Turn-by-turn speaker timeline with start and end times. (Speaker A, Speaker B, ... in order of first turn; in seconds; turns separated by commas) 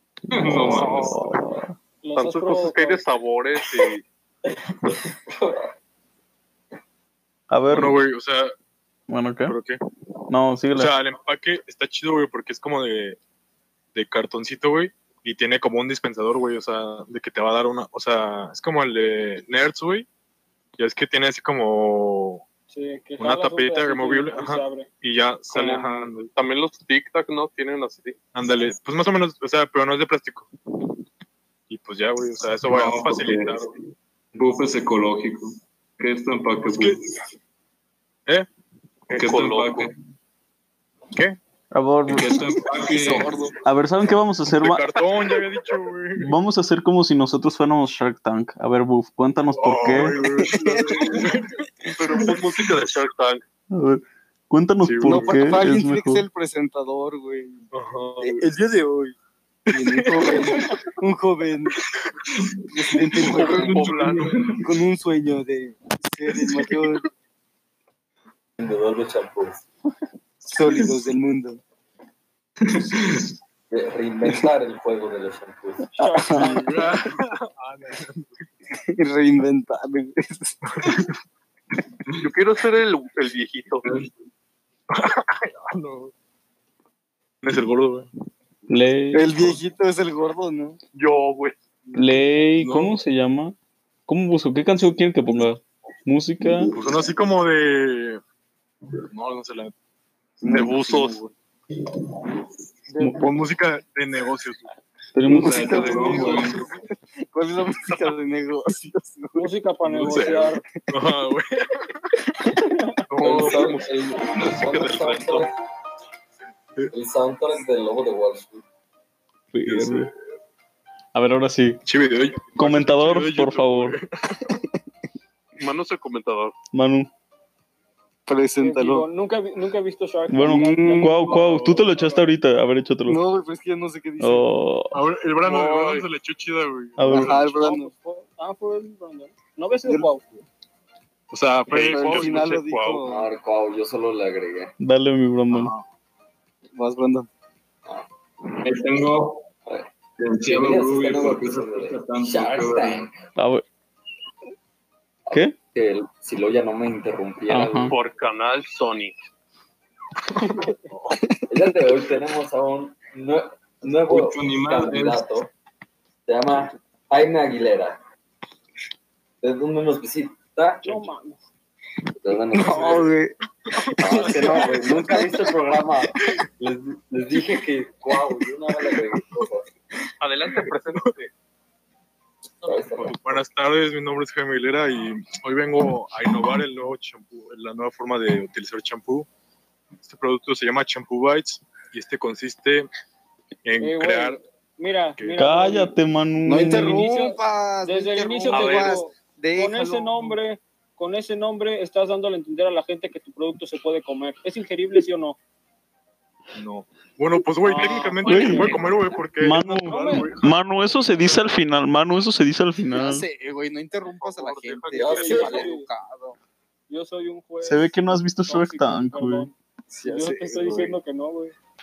Speaker A: 0.3-1.2, Speaker B: 0.3-1.7, Speaker C: 2.0-3.0, Speaker D: 2.1-4.0, Speaker E: 4.5-5.7, Speaker B: 7.5-8.0, Speaker F: 7.7-8.5, Speaker B: 9.1-9.5, Speaker F: 9.5-9.8, Speaker B: 10.3-10.9, Speaker F: 10.7-13.2, Speaker F: 13.9-20.1, Speaker F: 20.8-22.4, Speaker C: 22.7-24.9, Speaker F: 23.2-26.3, Speaker D: 25.5-28.1, Speaker F: 28.3-30.5, Speaker F: 31.7-33.7, Speaker A: 32.6-33.7, Speaker A: 34.4-37.0, Speaker F: 36.6-37.0, Speaker D: 39.1-39.9, Speaker A: 39.1-40.0, Speaker F: 41.1-41.4, Speaker B: 41.7-42.4, Speaker A: 42.1-43.4, Speaker G: 42.8-43.5, Speaker B: 43.6-44.9, Speaker F: 44.5-46.4, Speaker B: 46.2-50.2, Speaker F: 49.5-52.7, Speaker G: 50.2-51.4, Speaker D: 52.0-53.4, Speaker B: 53.7-56.2, Speaker F: 54.8-55.5, Speaker G: 55.0-57.6, Speaker F: 57.7-58.5, Speaker G: 58.2-59.1, Speaker F: 59.7-60.8, Speaker G: 59.7-61.8, Speaker A: 62.2-64.8, Speaker G: 62.7-63.9, Speaker D: 63.3-64.3, Speaker G: 64.6-67.0, Speaker E: 68.6-69.6, Speaker G: 70.5-71.6, Speaker A: 72.6-73.3, Speaker E: 73.7-75.9, Speaker C: 76.0-76.7, Speaker G: 76.0-76.8, Speaker F: 76.4-78.5, Speaker G: 78.8-80.6, Speaker F: 80.7-81.1, Speaker D: 82.2-83.9, Speaker A: 83.8-84.1, Speaker F: 84.9-86.1, Speaker F: 87.4-88.1, Speaker B: 88.7-89.4, Speaker G: 89.1-90.8, Speaker D: 90.9-91.5, Speaker B: 91.9-93.5, Speaker F: 92.6-92.9, Speaker B: 94.1-96.8, Speaker F: 96.7-98.2, Speaker F: 99.1-99.7, Speaker G: 100.4-101.3, Speaker D: 100.5-101.2, Speaker C: 102.9-103.4, Speaker F: 103.0-104.7, Speaker B: 105.1-106.2, Speaker G: 105.2-109.5, Speaker A: 105.3-106.7, Speaker D: 105.7-106.2, Speaker C: 109.3-110.6, Speaker F: 110.0-112.3, Speaker F: 113.1-113.7, Speaker D: 113.2-115.5, Speaker E: 113.2-115.5, Speaker E: 116.9-118.6, Speaker B: 119.5-120.1, Speaker F: 119.6-120.1, Speaker B: 121.1-121.8, Speaker F: 121.8-124.5, Speaker B: 122.6-124.0, Speaker D: 125.6-126.5, Speaker B: 126.7-127.1, Speaker G: 128.3-129.1, Speaker C: 128.6-132.3, Speaker B: 130.3-133.2, Speaker G: 130.5-131.2, Speaker G: 133.1-134.5, Speaker B: 134.2-135.0, Speaker F: 134.9-137.4, Speaker D: 135.4-136.1, Speaker B: 137.0-137.4, Speaker G: 137.1-137.9, Speaker C: 137.4-140.2, Speaker F: 141.3-142.6, Speaker D: 141.7-143.0, Speaker G: 141.7-143.3, Speaker E: 143.0-144.7, Speaker B: 144.8-145.7, Speaker F: 145.5-145.8, Speaker G: 146.8-147.3, Speaker A: 148.6-149.5, Speaker A: 150.2-153.1, Speaker E: 150.5-153.1, Speaker B: 153.4-153.6, Speaker E: 155.3-158.0, Speaker B: 157.5-157.9, Speaker D: 157.9-159.2, Speaker F: 160.9-161.2, Speaker E: 161.5-165.5, Speaker A: 164.1-165.2, Speaker E: 166.3-168.0, Speaker E: 169.4-171.1, Speaker C: 170.8-171.4, Speaker E: 172.2-173.1, Speaker G: 172.6-173.3, Speaker F: 173.7-174.8, Speaker E: 174.0-179.7, Speaker G: 174.1-175.1, Speaker D: 180.2-181.3, Speaker F: 180.5-181.1, Speaker E: 182.6-183.4, Speaker F: 183.0-189.3, Speaker F: 190.0-192.9, Speaker F: 193.6-194.4, Speaker C: 193.8-195.9, Speaker B: 195.4-197.1, Speaker G: 196.4-200.4, Speaker C: 196.8-205.4, Speaker D: 198.5-199.0, Speaker F: 206.6-210.5, Speaker C: 207.6-208.9, Speaker D: 208.2-208.9, Speaker B: 208.3-208.8, Speaker B: 209.4-213.2, Speaker C: 209.8-210.3, Speaker G: 212.9-216.4, Speaker D: 214.1-215.7, Speaker E: 214.9-215.7, Speaker C: 215.1-215.9, Speaker C: 216.9-221.5, Speaker B: 217.6-219.5, Speaker G: 219.9-221.0